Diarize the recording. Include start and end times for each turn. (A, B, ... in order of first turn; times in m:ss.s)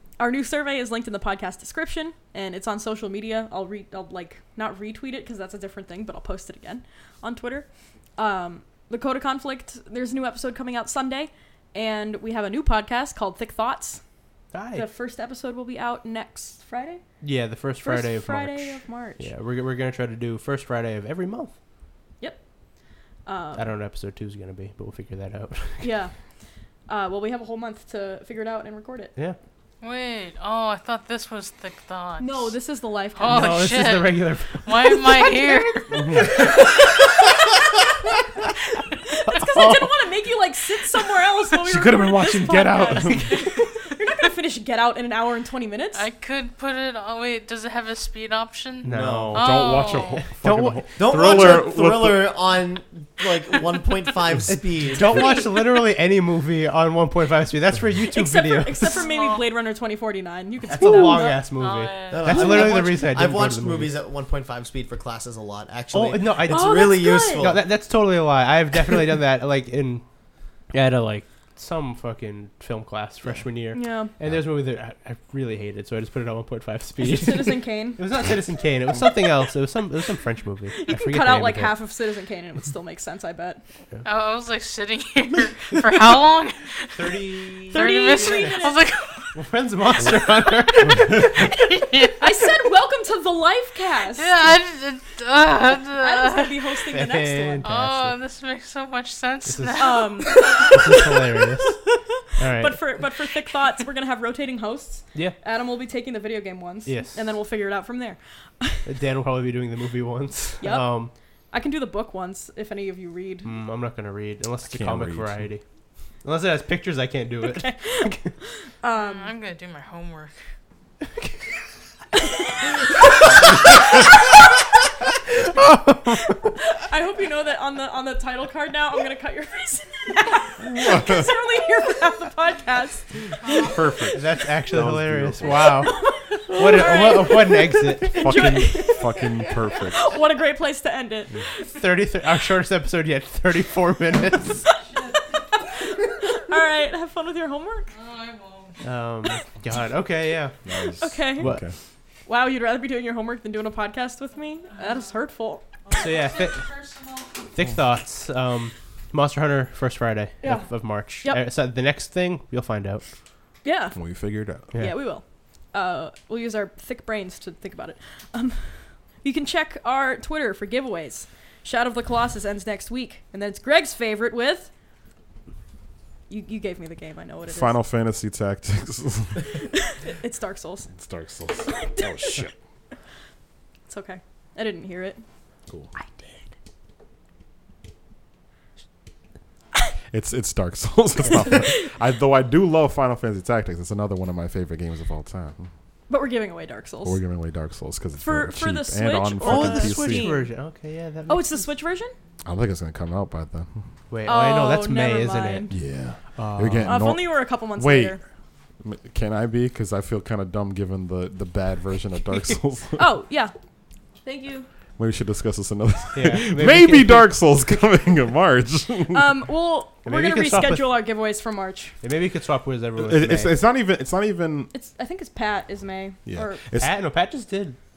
0:00.2-0:14.0 A
0:14.5-0:14.8 B
0:14.7-0:17.0 A
0:17.2-0:21.6 B
0:17.8-0:19.3 A
0:23.2-0:23.7 A
0:23.6-0:26.0 B
0:25.8-0:26.1 A
0:26.9-0:29.1 A
0:29.8-0:32.6 C
0:32.2-0:33.6 A
0:33.1-0:36.3 C
0:33.3-0:35.0 B
0:35.1-0:37.3 A
0:36.0-0:36.3 D
0:39.1-0:46.0 A
0:39.3-0:39.9 B
0:41.7-0:43.3 D
0:42.4-0:43.6 B
0:45.9-0:50.3 C
0:48.8-0:51.5 B
0:48.9-0:49.4 E
0:49.3-0:52.5 D
0:51.0-0:55.4 E
0:54.5-0:58.9 B
0:55.0-0:55.6 A
0:58.1-1:01.4 A
0:58.9-0:59.4 C
1:00.7-1:04.0 B
1:01.6-1:02.5 C
1:02.1-1:07.6 E
1:02.3-1:02.7 A
1:05.9-1:10.0 B
1:06.5-1:07.5 A
1:10.7-1:21.7 B
1:13.7-1:14.1 A
1:17.0-1:18.0 A
1:20.8-1:23.6 A
1:24.0-1:29.4 C
1:26.9-1:28.7 B
1:27.7-1:28.9 A
1:29.3-1:31.5 B
1:30.5-1:32.5 C
1:32.2-1:34.4 A
1:34.2-1:36.7 C
1:35.9-1:37.7 A
1:36.9-1:38.2 B
1:37.6-1:40.8 C
1:39.4-1:41.8 B
1:39.8-1:48.8 A
1:42.4-1:43.0 B
1:46.9-1:47.3 B
1:48.8-1:51.1 B
1:50.6-1:53.5 A
1:53.4-1:55.6 B
1:54.7-1:55.5 D
1:56.2-1:58.3 B
1:57.4-1:59.3 A
1:58.9-2:00.3 C
2:02.1-2:03.0 A
2:03.8-2:04.4 A
2:05.5-2:06.1 B
2:06.7-2:13.6 A
2:10.6-2:11.3 D
2:13.4-2:13.7 C
2:13.5-2:15.9 D
2:14.1-2:18.6 B
2:15.8-2:21.7 A
2:18.1-2:20.1 D
2:21.8-2:24.6 B
2:25.5-2:27.9 A
2:27.9-2:28.8 C
2:28.8-2:30.6 B
2:30.6-2:31.7 D
2:31.0-2:31.6 A
2:31.4-2:31.6 B
2:32.2-2:35.6 A
2:34.7-2:35.0 C
2:35.8-2:37.5 C
2:35.9-2:36.7 B
2:37.5-2:43.0 B
2:40.4-2:40.7 A
2:43.6-2:44.0 A
2:43.9-2:44.7 D
2:44.7-2:54.7 A
2:56.3-2:57.8 A
2:57.5-2:59.6 D
2:59.8-3:00.9 A
3:00.9-3:02.6 D
3:01.7-3:02.4 A
3:03.9-3:05.2 A
3:06.0-3:06.4 A
3:10.1-3:15.7 D
3:11.3-3:11.9 A
3:16.1-3:17.2 A
3:17.0-3:20.3 D
3:18.2-3:20.5 A
3:19.4-3:21.6 B
3:21.3-3:22.1 A
3:22.4-3:23.8 D
3:24.1-3:25.7 B
3:24.2-3:25.8 A
3:25.7-3:28.2 D
3:26.4-3:27.0 B
3:26.8-3:28.2 A
3:28.8-3:33.0 D
3:33.0-3:33.5 A
3:34.2-3:34.7 A
3:35.0-3:39.4 D
3:36.1-3:37.3 B
3:39.1-3:41.9 A
3:40.0-3:40.9 B
3:42.0-3:43.6 B
3:43.0-3:44.7 D
3:44.7-3:46.6 A
3:46.2-3:46.9 D
3:46.8-3:47.8 B